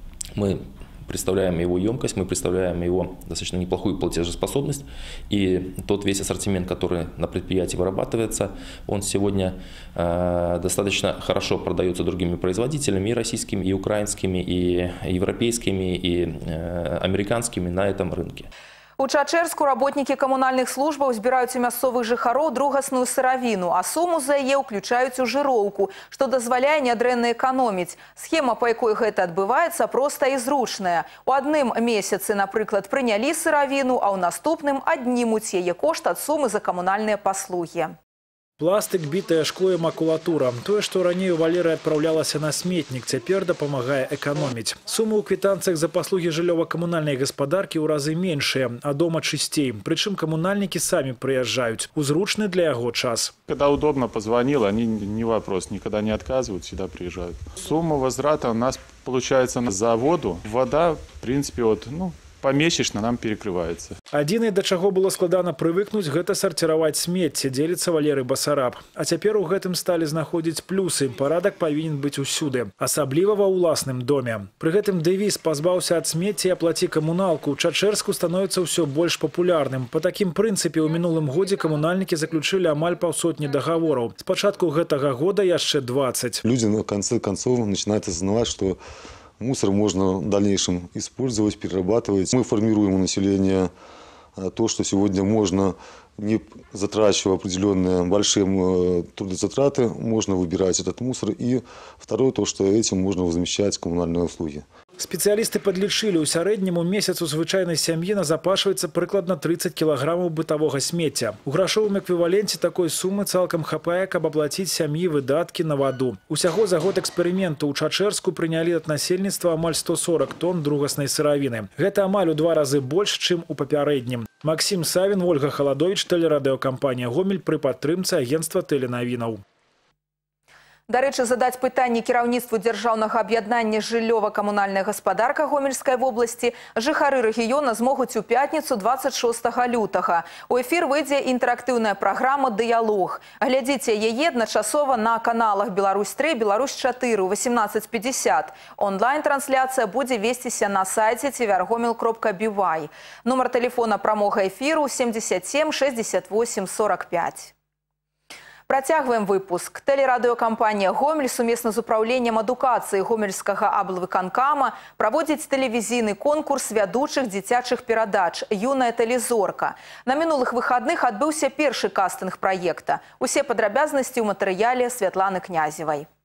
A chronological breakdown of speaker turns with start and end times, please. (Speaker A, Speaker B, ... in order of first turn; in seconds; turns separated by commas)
Speaker A: 0.3-18.5, Speaker B: 19.0-37.9, Speaker C: 38.6-53.3, Speaker D: 53.5-64.0, Speaker C: 64.1-86.4, Speaker E: 86.4-88.8, Speaker E: 89.4-93.7, Speaker E: 94.4-104.6, Speaker C: 105.0-129.4, Speaker B: 130.9-157.5, Speaker B: 158.7-176.1